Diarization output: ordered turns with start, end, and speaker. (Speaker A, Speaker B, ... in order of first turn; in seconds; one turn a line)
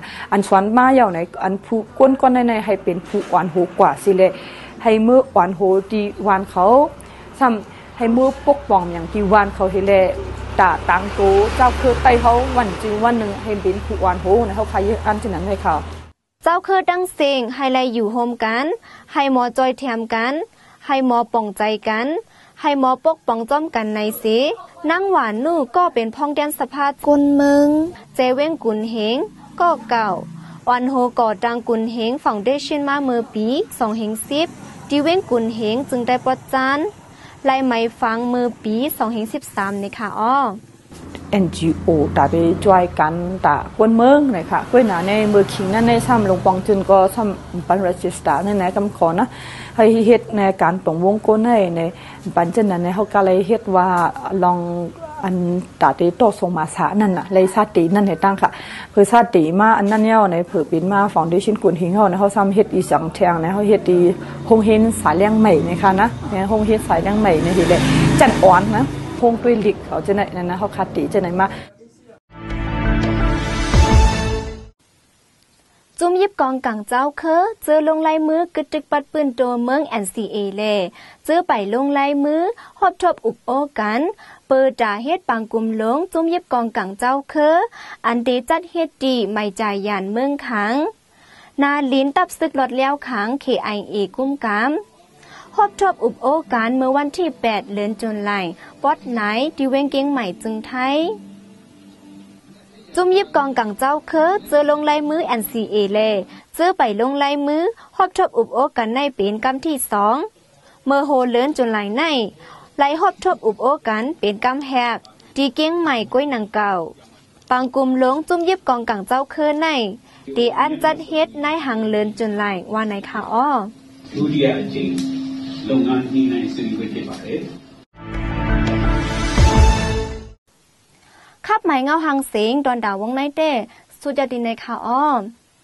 Speaker A: 0.3-15.8
Speaker B: 16.4-36.9
Speaker B: 37.4-40.6
Speaker A: 41.3-71.5
Speaker B: 76.0-90.9
Speaker B: 91.6-94.8
Speaker B: 95.5-101.1
Speaker B: 102.9-110.2
Speaker B: 110.8-116.9
Speaker B: 117.5-123.7
Speaker C: 124.1-127.5
Speaker B: 131.4-135.3